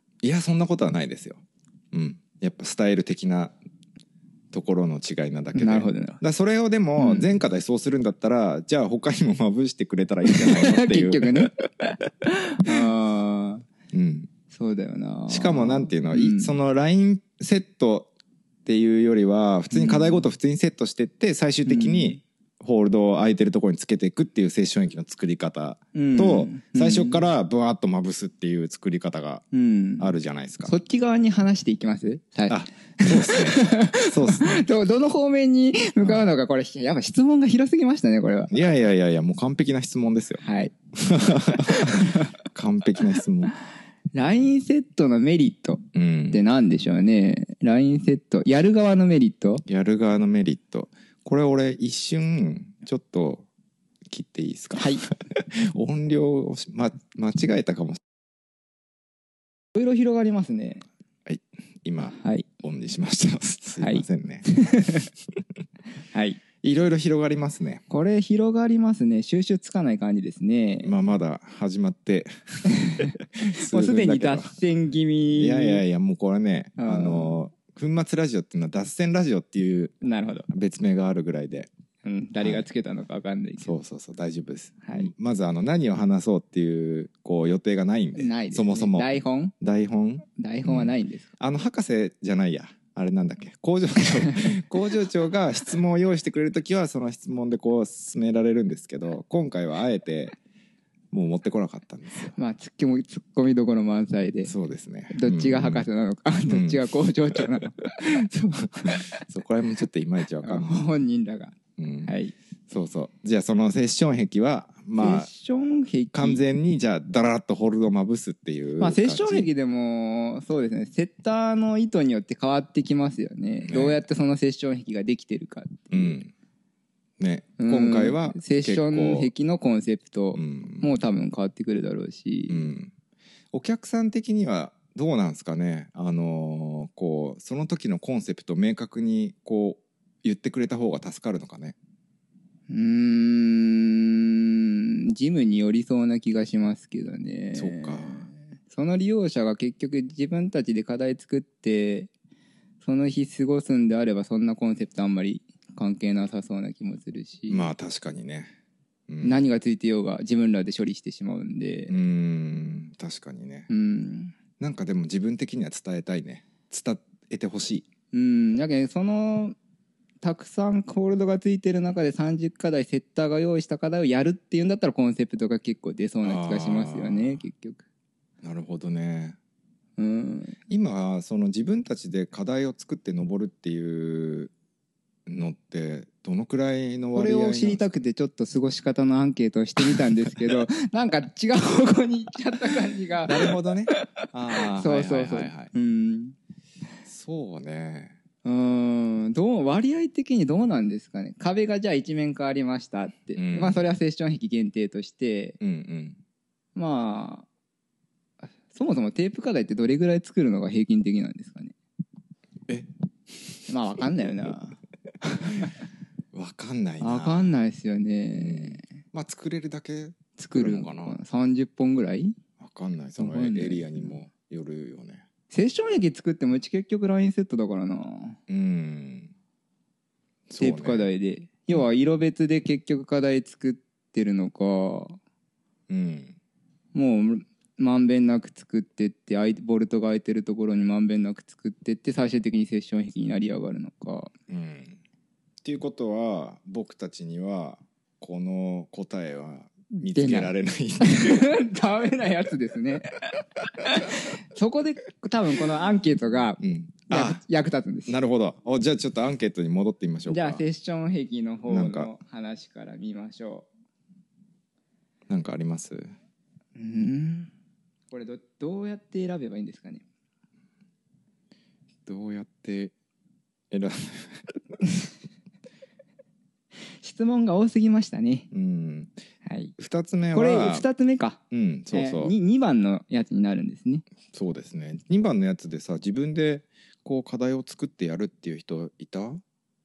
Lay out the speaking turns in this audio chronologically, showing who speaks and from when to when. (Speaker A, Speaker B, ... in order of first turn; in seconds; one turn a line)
Speaker A: 0.2-1.4
Speaker A: 1.9-3.5
Speaker A: 4.5-11.5
Speaker B: 5.5-6.2
Speaker B: 7.0-7.3
Speaker B: 10.3-13.6
Speaker A: 13.9-14.3
Speaker B: 14.5-16.5
Speaker A: 15.3-18.1
Speaker A: 18.6-29.4
Speaker B: 19.7-20.2
Speaker B: 21.7-22.2
Speaker B: 25.9-27.2
Speaker B: 29.5-30.1
Speaker A: 30.0-30.7
Speaker B: 30.6-38.5
Speaker A: 32.5-34.6
Speaker A: 36.0-36.2
Speaker A: 38.5-40.4
Speaker B: 40.4-40.7
Speaker A: 41.0-43.5
Speaker B: 41.3-42.2
Speaker B: 44.1-49.6
Speaker A: 45.9-46.4
Speaker A: 49.7-53.5
Speaker A: 54.1-58.0
Speaker B: 54.8-55.1
Speaker B: 59.8-60.8
Speaker A: 61.3-64.5
Speaker B: 62.0-62.5
Speaker B: 63.8-65.1
Speaker B: 66.1-66.4
Speaker A: 66.6-67.8
Speaker B: 67.9-70.9
Speaker A: 70.8-72.3
Speaker B: 72.7-75.8
Speaker A: 72.9-74.5
Speaker A: 75.3-79.9
Speaker B: 76.8-77.4
Speaker B: 80.0-80.5
Speaker A: 80.5-81.7
Speaker B: 82.0-83.7
Speaker A: 83.6-100.3
Speaker B: 84.8-85.1
Speaker B: 88.2-89.5
Speaker B: 90.4-91.3
Speaker A: 101.1-102.4
Speaker B: 102.4-104.5
Speaker A: 104.4-105.9
Speaker B: 105.1-108.1
Speaker A: 106.5-106.8
Speaker A: 108.0-110.8
Speaker B: 110.4-112.3
Speaker A: 111.8-112.1
Speaker A: 112.7-115.3
Speaker B: 115.0-116.4
Speaker A: 116.1-119.5
Speaker B: 118.8-126.2
Speaker A: 123.7-124.0
Speaker A: 125.9-126.3
Speaker A: 127.2-129.3
Speaker B: 127.6-132.7
Speaker A: 130.3-130.9
Speaker A: 132.5-132.9
Speaker A: 133.5-141.8
Speaker B: 142.7-152.1
Speaker A: 147.5-148.3
Speaker B: 152.8-157.7
Speaker A: 157.5-158.5
Speaker A: 159.1-159.4
Speaker B: 159.2-161.9
Speaker A: 161.9-163.7
Speaker B: 163.7-164.4
Speaker A: 164.6-167.9
Speaker B: 168.1-169.6
Speaker B: 170.2-177.8
Speaker A: 176.2-177.4
Speaker A: 178.4-179.4
Speaker B: 180.0-180.6
Speaker A: 180.7-184.5
Speaker A: 185.3-187.8
Speaker B: 187.1-196.4
Speaker A: 193.2-195.7
Speaker A: 197.1-198.2
Speaker B: 198.4-205.6
Speaker A: 203.3-203.8
Speaker A: 205.6-206.2
Speaker B: 206.8-207.5
Speaker B: 208.7-211.8
Speaker B: 213.7-215.7
Speaker A: 216.3-217.5
Speaker B: 217.0-218.8
Speaker A: 218.4-221.2
Speaker B: 220.4-222.4
Speaker A: 222.6-225.2
Speaker B: 223.2-224.2
Speaker B: 225.5-228.4
Speaker A: 228.5-229.3
Speaker A: 230.5-231.1
Speaker B: 230.6-235.2
Speaker A: 235.9-236.4
Speaker B: 236.9-244.3
Speaker A: 244.5-245.0
Speaker A: 245.6-251.5
Speaker B: 249.9-258.1
Speaker A: 256.6-257.4
Speaker A: 258.1-260.6
Speaker B: 260.3-263.7
Speaker A: 261.7-262.1
Speaker A: 265.3-266.1
Speaker B: 266.8-267.5
Speaker B: 268.1-270.1
Speaker A: 272.1-272.9
Speaker A: 273.7-274.8
Speaker B: 277.0-278.5
Speaker A: 278.5-279.1
Speaker B: 279.4-279.7
Speaker A: 279.8-280.9
Speaker B: 280.3-281.4
Speaker A: 281.5-282.3
Speaker B: 281.9-284.1
Speaker A: 284.3-289.4